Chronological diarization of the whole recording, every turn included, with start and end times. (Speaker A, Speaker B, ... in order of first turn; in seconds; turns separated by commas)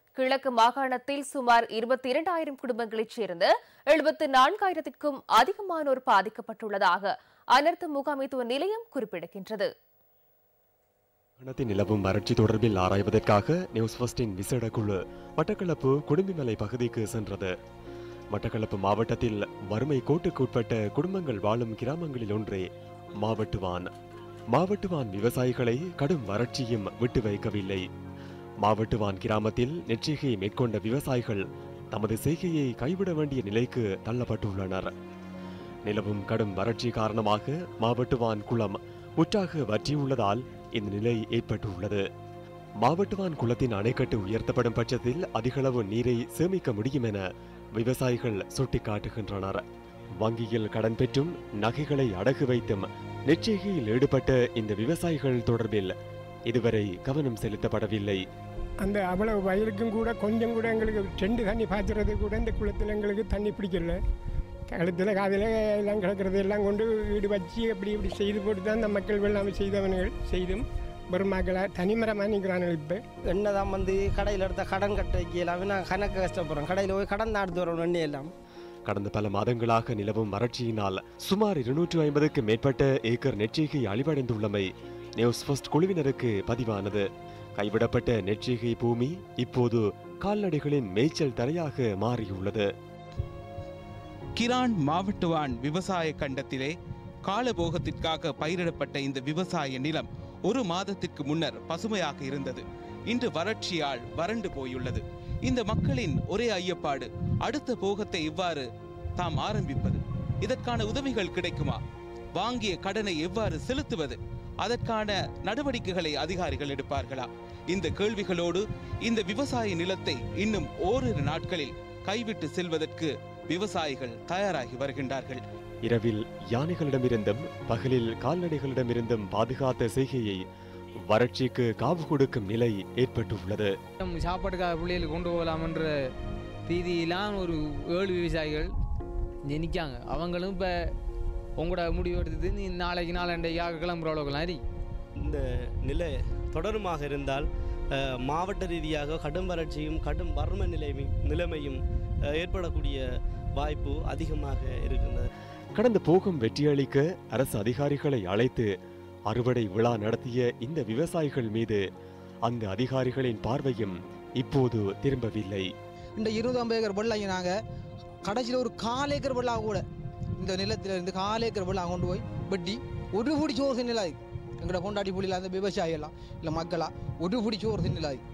Speaker A: 0.2-9.7, Speaker B: 11.4-17.5, Speaker B: 18.3-22.7, Speaker B: 23.2-23.9, Speaker B: 24.5-27.8, Speaker B: 28.6-31.4, Speaker B: 31.9-34.9, Speaker B: 35.9-42.0, Speaker B: 42.8-47.2, Speaker B: 47.8-49.6, Speaker B: 50.2-55.9, Speaker B: 56.5-58.2, Speaker C: 58.8-64.0, Speaker C: 64.7-73.0, Speaker D: 73.3-78.3, Speaker B: 78.9-84.7, Speaker B: 85.2-87.0, Speaker B: 87.6-92.7, Speaker E: 94.4-96.7, Speaker E: 97.3-108.7, Speaker E: 109.2-111.8, Speaker E: 112.4-125.4, Speaker B: 125.9-130.4, Speaker B: 131.1-133.7, Speaker F: 134.0-135.9, Speaker F: 136.7-138.7, Speaker F: 139.5-140.7, Speaker F: 141.6-144.6, Speaker G: 145.2-151.8, Speaker G: 152.3-153.0, Speaker G: 153.6-155.3, Speaker B: 155.8-158.7, Speaker B: 159.3-161.8, Speaker B: 162.4-165.7, Speaker H: 166.2-167.5, Speaker H: 168.2-169.8, Speaker H: 170.4-178.2